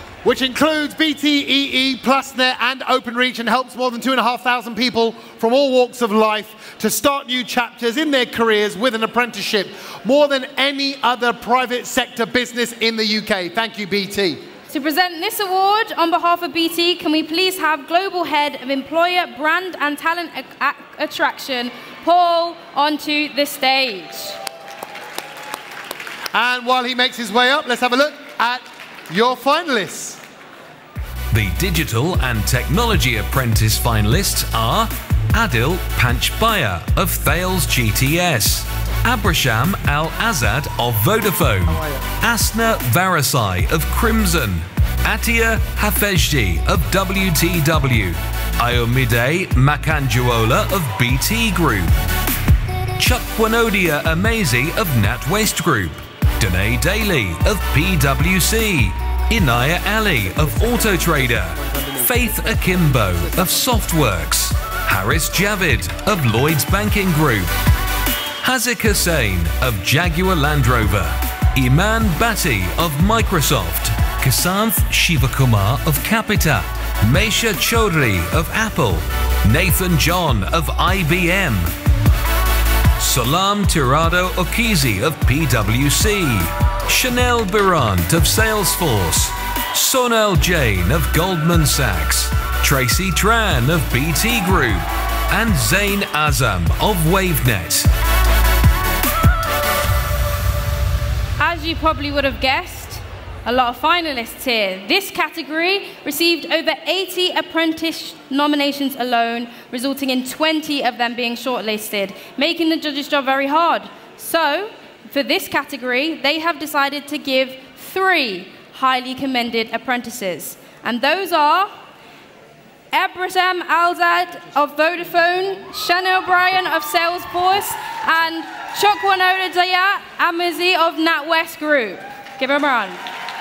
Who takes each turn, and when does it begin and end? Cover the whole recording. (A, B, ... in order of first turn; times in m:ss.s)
0:00.2-0:14.4 A
0:14.7-0:24.4 B
0:26.3-0:30.2 A
0:31.3-0:52.0 C
0:41.7-0:42.0 A
0:53.0-1:07.5 C
1:00.8-1:03.8 A
1:08.4-1:21.7 C
1:23.0-1:37.9 C
1:41.4-2:01.7 B
2:02.9-2:13.0 B